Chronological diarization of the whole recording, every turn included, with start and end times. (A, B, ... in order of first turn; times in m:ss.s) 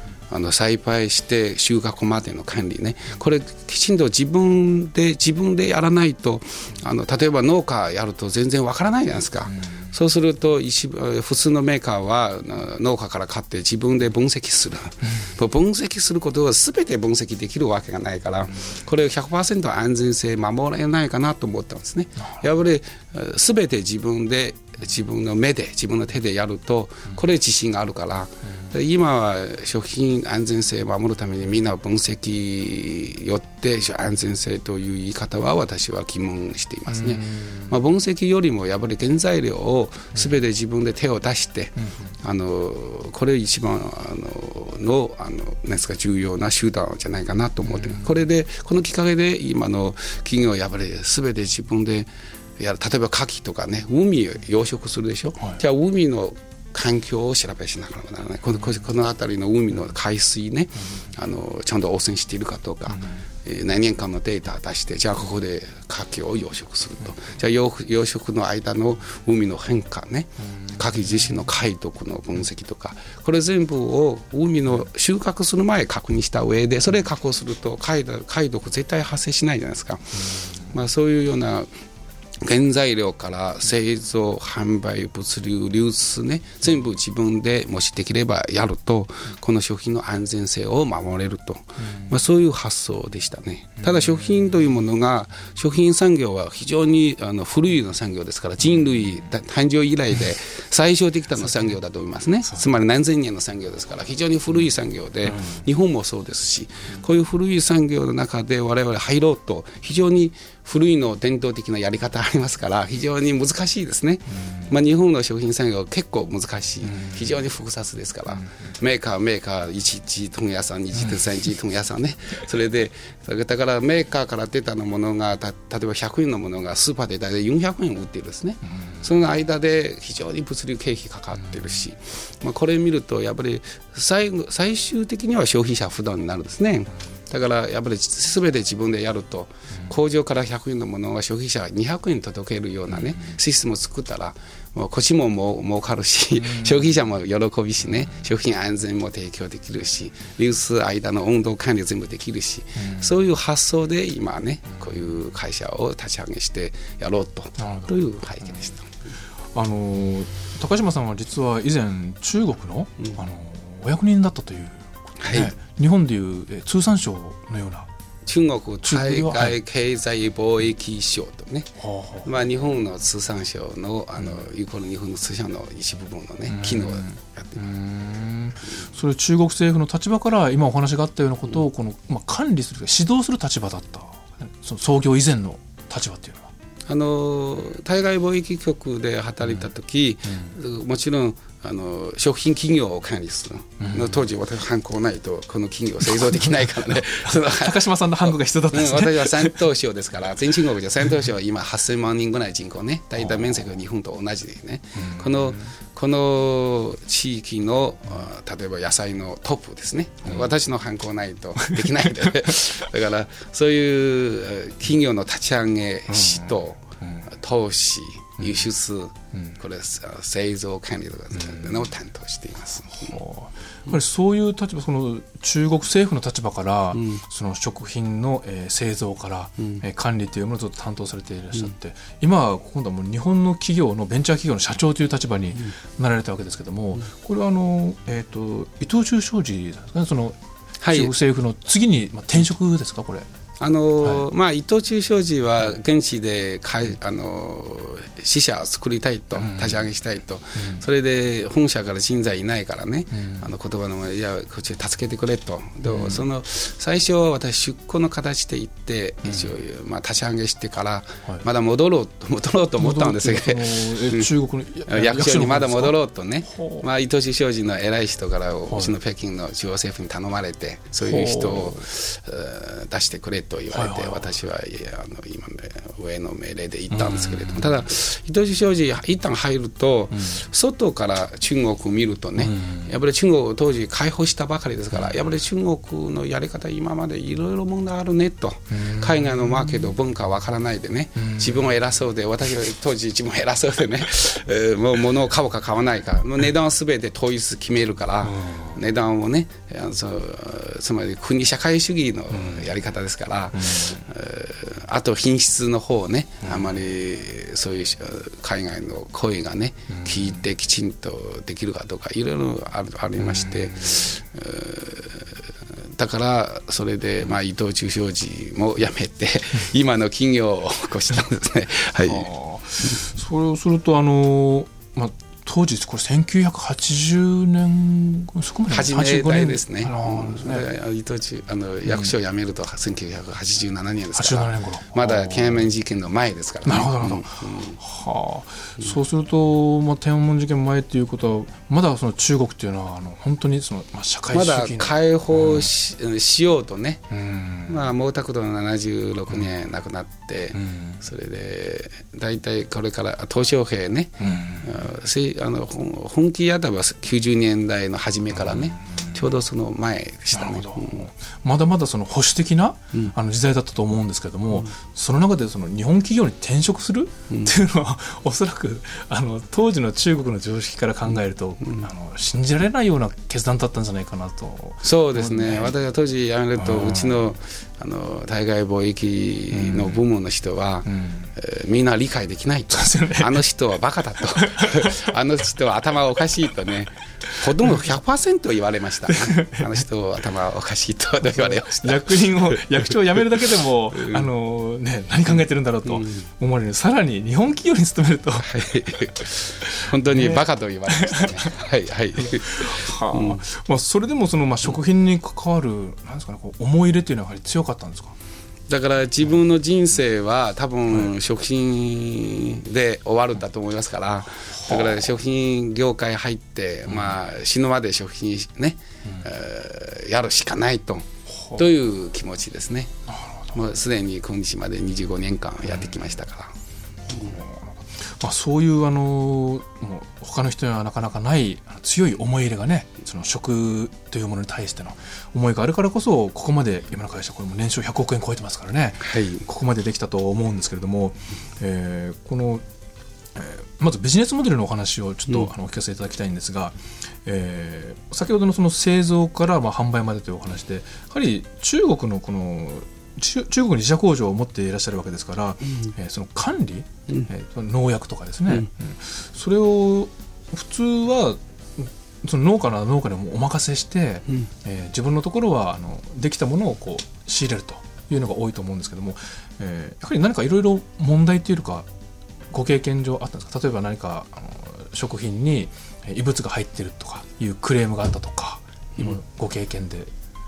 0:00.3-1:21.7 A
0:09.5-0:09.9 B
0:36.9-0:37.6 B
1:02.9-1:03.2 B
1:22.4-2:38.9 A
1:45.2-1:45.6 B
1:54.4-1:54.7 B
1:56.8-1:57.2 B
2:32.8-2:33.1 B
2:37.6-2:37.9 B
2:39.5-2:47.9 B
2:45.2-2:45.5 A
2:48.2-2:57.6 A
2:48.8-2:49.6 B
2:51.8-2:52.3 B
2:56.5-2:57.0 B
2:57.6-3:06.5 B
3:06.9-3:43.2 A
3:13.8-3:14.2 B
3:16.0-3:19.6 B
3:25.0-3:25.6 B
3:36.1-3:37.2 B
3:41.4-3:41.7 B
3:43.0-4:03.3 B
3:46.9-3:47.2 A
4:00.8-4:01.1 A
4:03.6-4:24.3 A
4:09.4-4:09.7 B
4:10.6-4:10.8 B
4:13.1-4:13.5 B
4:15.9-4:16.2 B
4:19.2-4:19.5 B
4:22.8-4:25.9 B
4:24.9-5:15.3 A
4:26.5-4:26.8 B
4:28.7-4:28.9 B
4:31.0-4:31.9 B
4:33.7-4:34.3 B
4:36.9-4:37.6 B
4:42.4-4:42.9 B
4:48.7-4:49.8 B
4:51.2-4:51.6 B
4:58.2-4:58.8 B
5:02.3-5:02.7 B
5:03.5-5:04.0 B
5:09.9-5:10.3 B
5:13.2-5:13.5 B
5:16.0-5:22.3 A
5:22.1-5:30.7 B
5:28.7-5:37.8 A
5:31.8-5:32.1 B
5:34.1-5:35.7 B
5:36.6-5:45.7 B
5:44.3-5:47.1 A
5:47.1-5:47.8 B
5:47.6-6:01.1 A
5:50.5-5:51.0 B
5:54.2-5:54.7 B
6:00.3-6:15.7 B
6:14.8-6:32.8 A
6:16.6-6:17.2 B
6:19.5-6:20.0 B
6:20.8-6:21.3 B
6:22.7-6:23.4 B
6:24.3-6:25.1 B
6:29.1-6:29.7 B
6:31.3-6:38.5 B
6:33.9-6:34.3 A
6:35.8-6:36.2 A
6:38.4-6:43.4 A
6:39.6-6:41.4 B
6:42.2-6:48.1 B
6:48.7-7:02.9 A
7:01.4-7:01.6 B
7:03.1-7:03.4 B
7:03.5-7:06.5 A
7:07.1-7:07.4 A
7:07.1-7:22.6 B
7:19.0-7:19.4 A
7:23.3-7:51.9 B
7:52.5-8:00.1 B